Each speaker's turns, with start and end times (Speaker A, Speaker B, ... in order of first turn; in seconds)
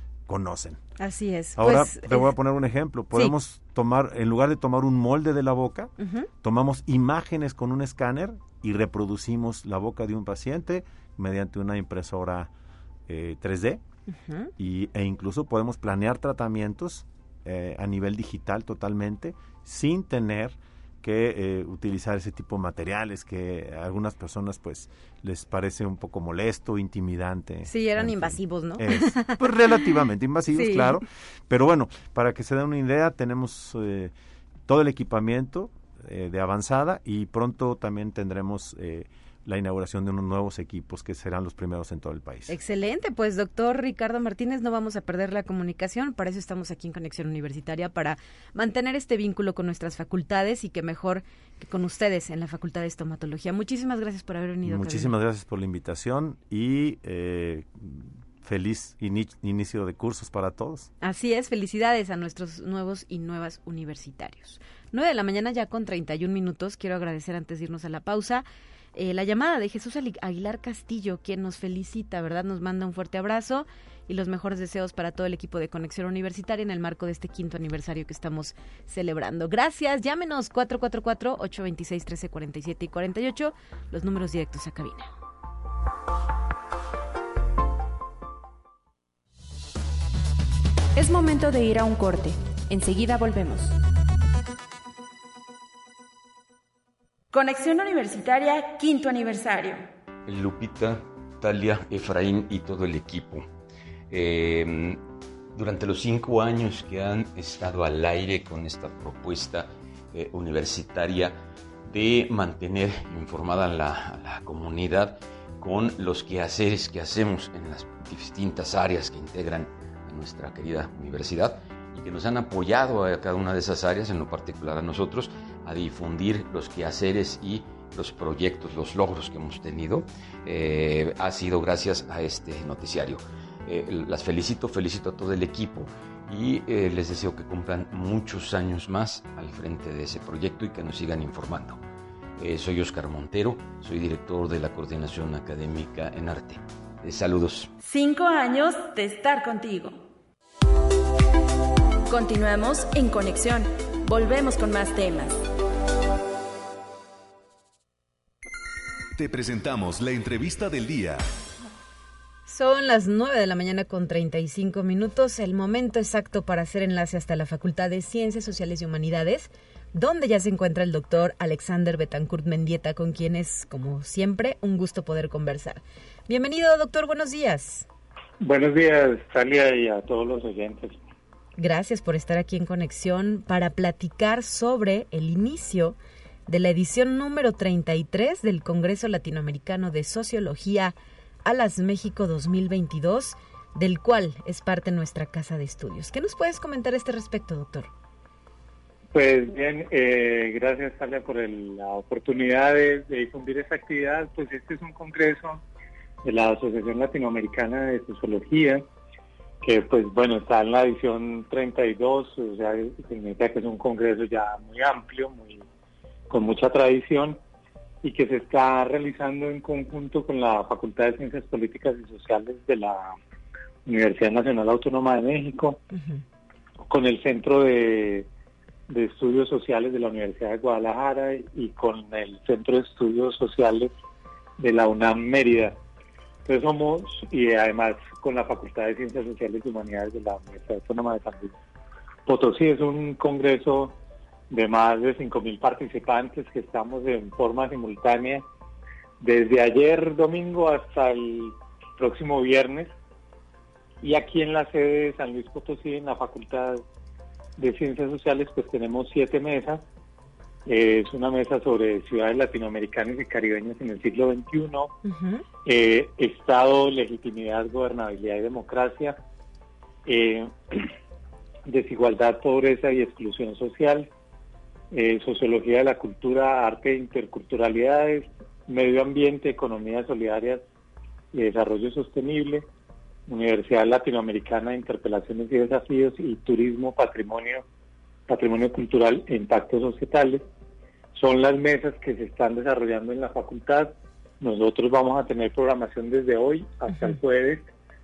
Speaker A: 0.3-0.8, 1.6-12.5, 13.1-13.8, 14.6-34.1, 34.7-42.5, 54.6-60.9
Speaker B: 1.0-2.3, 6.0-6.3, 27.6-29.4, 30.5-31.0, 42.5-55.1, 61.0-85.1, 162.5-177.9, 181.6-197.9, 225.9-226.2, 265.1-265.4
Speaker C: 91.0-93.8, 97.3-99.8, 147.8-150.0, 152.1-155.4
Speaker D: 100.3-103.5, 104.1-105.0, 105.5-141.8, 142.4-147.7
Speaker E: 159.2-161.2
Speaker F: 178.4-181.0, 199.1-205.6, 206.2-208.8, 209.6-215.7, 216.3-217.4, 218.0-223.2, 223.9-225.8, 226.8-228.3, 228.9-233.9, 234.6-235.8, 236.4-241.6, 242.3-244.0, 244.5-248.5, 249.2-252.9, 254.0-256.8, 257.6-259.8, 260.7-264.9, 265.6-269.2, 270.1-270.9, 271.7-274.1, 274.9-280.6, 281.3-282.7, 283.3-287.6, 288.3-290.4, 291.1-297.7